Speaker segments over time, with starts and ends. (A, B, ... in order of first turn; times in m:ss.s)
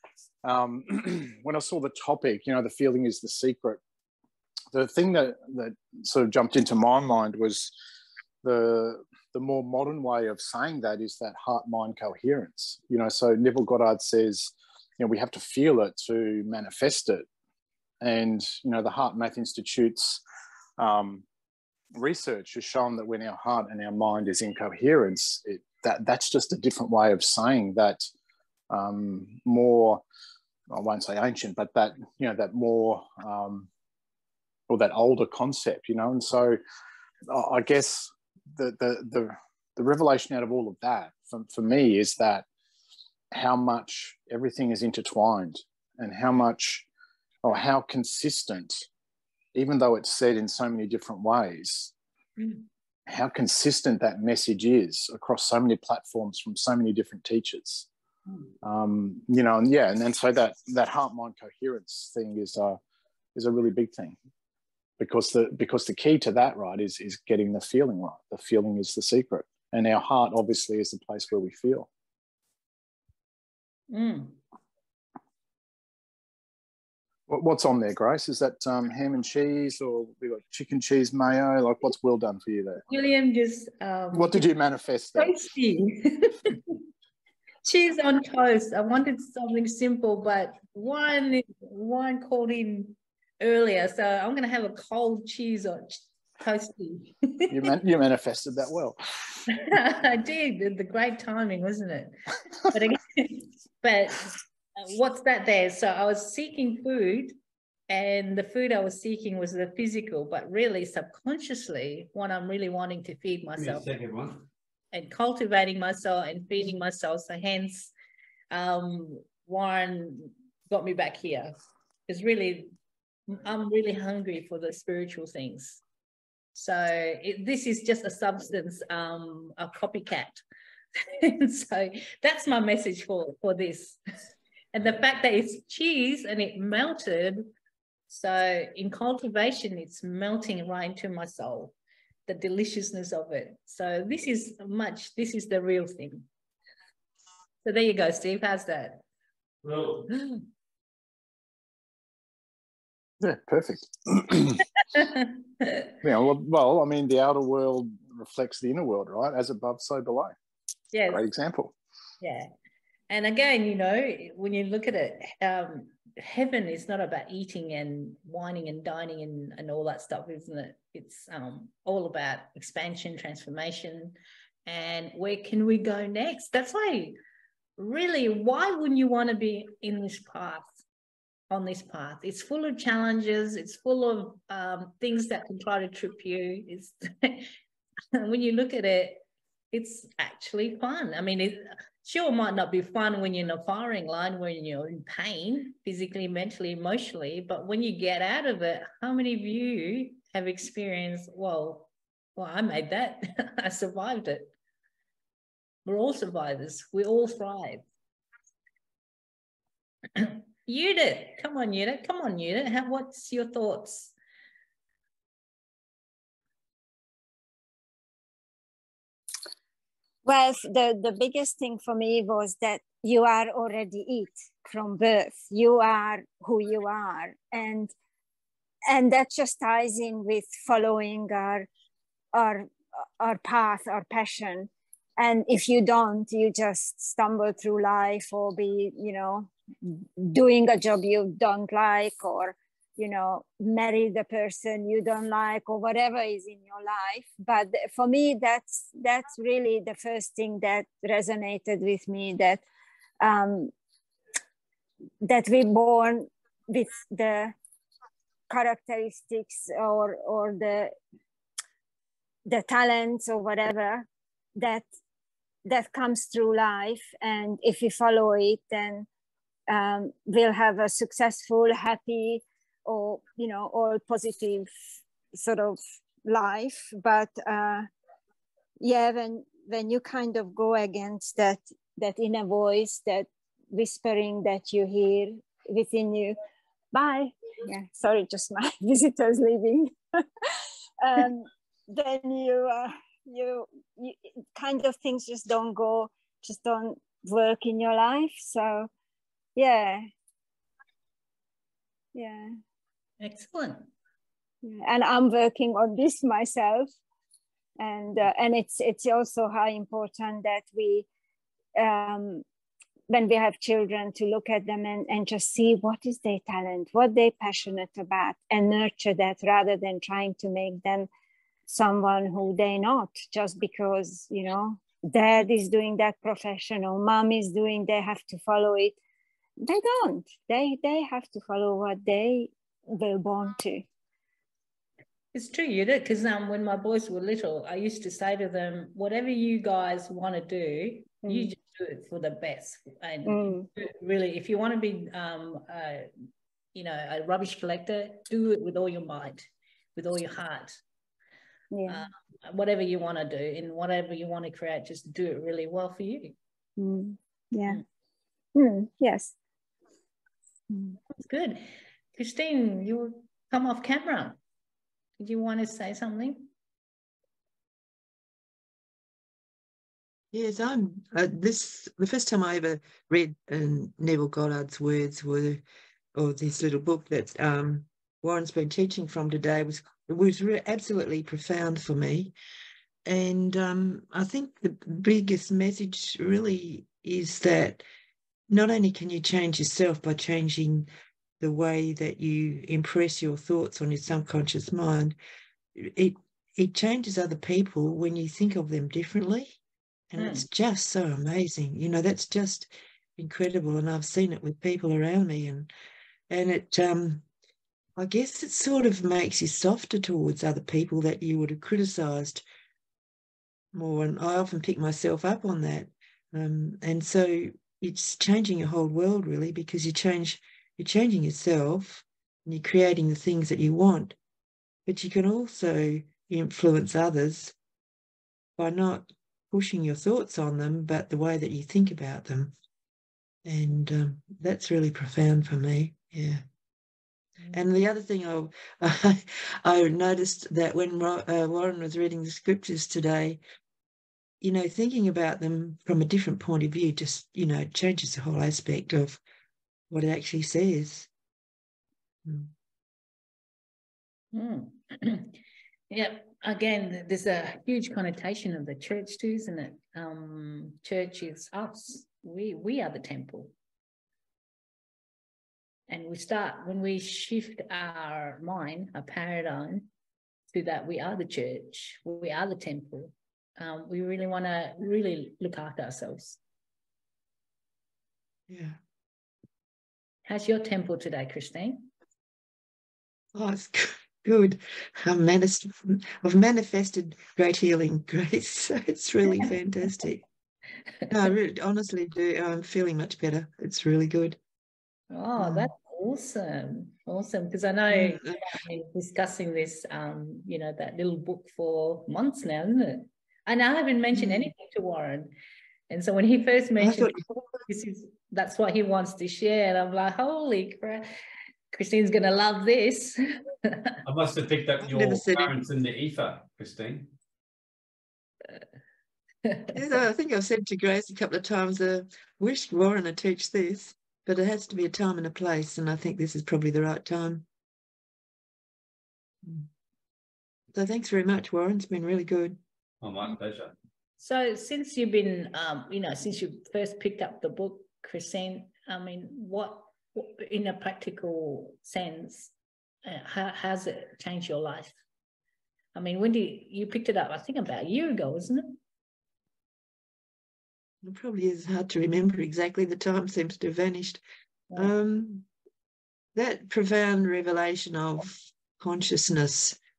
0:00.4-0:03.8 A
0:04.7-0:07.7 A
0:08.4-0:17.3 A
0:18.0-0:20.2 A
0:20.8-0:21.2 A
0:21.9-0:28.1 A
0:28.7-0:30.0 A
0:30.7-0:33.7 A
0:34.7-0:36.6 A
0:37.3-0:42.4 A
0:43.3-0:46.8 A
0:47.4-0:48.8 A
0:49.5-0:51.9 A
0:52.4-0:52.6 B
0:53.1-0:57.9 A
0:58.3-0:58.5 B
0:58.6-1:02.8 A
1:03.3-1:04.1 A
1:05.0-1:11.9 A
1:13.9-1:14.4 B
1:17.3-1:22.8 A
1:22.8-1:24.5 B
1:24.1-1:25.4 A
1:25.2-1:26.8 B
1:27.6-1:37.7 B
1:37.5-1:39.0 A
1:39.5-1:42.1 B
1:42.7-1:47.4 B
1:47.9-1:53.9 B
1:53.6-1:54.4 C
1:54.9-1:57.9 B
1:58.5-2:01.6 B
2:02.1-2:02.7 B
2:03.3-2:05.8 B
2:06.5-2:10.4 B
2:11.0-2:14.0 B
2:14.7-2:17.5 B
2:18.1-2:21.7 B
2:22.3-2:26.2 B
2:27.6-2:29.0 B
2:29.6-2:30.1 C
2:30.1-2:30.4 B
2:33.2-2:34.6 A
2:34.9-2:35.9 B
2:36.0-2:40.3 A
2:40.9-2:41.2 B
2:41.1-2:41.7 A
2:42.2-2:42.5 B
2:43.1-2:57.2 B
2:57.8-3:00.7 B
3:01.5-3:07.5 B
3:08.1-3:24.5 B
3:25.8-3:27.8 B
3:30.2-3:34.1 B
3:40.2-3:47.9 D
3:48.9-3:51.7 D
3:52.3-4:12.6 D
4:13.2-4:13.7 D
4:15.2-4:17.6 D
4:18.5-4:20.9 D
4:22.5-4:24.9 D
4:25.7-4:29.1 D
4:29.7-4:34.7 D
4:35.3-4:37.9 D
4:38.8-4:46.4 D
4:46.9-4:49.9 D
4:51.0-4:58.9 D
4:59.6-5:00.0 D
5:02.1-5:02.5 D
5:03.2-5:03.9 B
5:04.6-5:06.9 D
5:07.8-5:11.1 D
5:11.8-5:12.4 D
5:13.1-5:21.1 D
5:21.7-5:29.0 D
5:29.6-5:33.8 D
5:35.3-5:46.1 B
5:41.2-5:41.5 D
5:43.2-5:43.7 D
5:46.7-5:50.8 B
5:51.7-5:52.0 D
5:51.9-5:56.3 B
5:56.8-5:57.8 D
5:58.5-5:59.3 D
6:00.7-6:01.0 D
6:01.2-6:04.4 B
6:05.2-6:06.5 B
6:10.3-6:15.6 E
6:16.1-6:22.3 E
6:23.0-6:27.8 E
6:28.5-6:30.9 E
6:31.4-6:35.2 E
6:35.7-6:39.6 E
6:40.1-6:45.7 E
6:40.2-6:40.4 B
6:46.3-6:47.2 E
6:48.0-6:52.4 E
6:53.7-7:04.2 E
7:04.8-7:07.5 E
7:08.6-7:12.5 E
7:13.4-7:16.4 E
7:17.5-7:23.4 E
7:24.4-7:29.2 E
7:29.9-7:31.1 E
7:32.2-7:32.5 E
7:34.3-7:35.4 B
7:35.9-7:43.5 B
7:45.9-7:49.9 B
7:50.5-7:56.4 B
7:58.5-7:58.8 E
8:00.3-8:01.9 B
8:03.3-8:10.2 E
8:11.1-8:14.4 E
8:15.1-8:25.3 B
8:15.4-8:15.7 E
8:17.9-8:18.6 E
8:24.1-8:24.5 E
8:25.9-8:27.1 B
8:26.8-8:27.6 E
8:27.7-8:31.1 B
8:31.7-8:33.9 B
8:34.0-8:37.1 C
8:34.8-8:35.5 E
8:39.4-8:39.7 B
8:39.7-8:47.4 E
8:50.7-8:52.6 E
8:53.0-8:53.7 C
8:54.2-9:02.5 B
9:03.0-9:05.0 B
9:05.9-9:08.8 B
9:11.0-9:14.2 E
9:14.8-9:15.4 E
9:16.3-9:19.8 E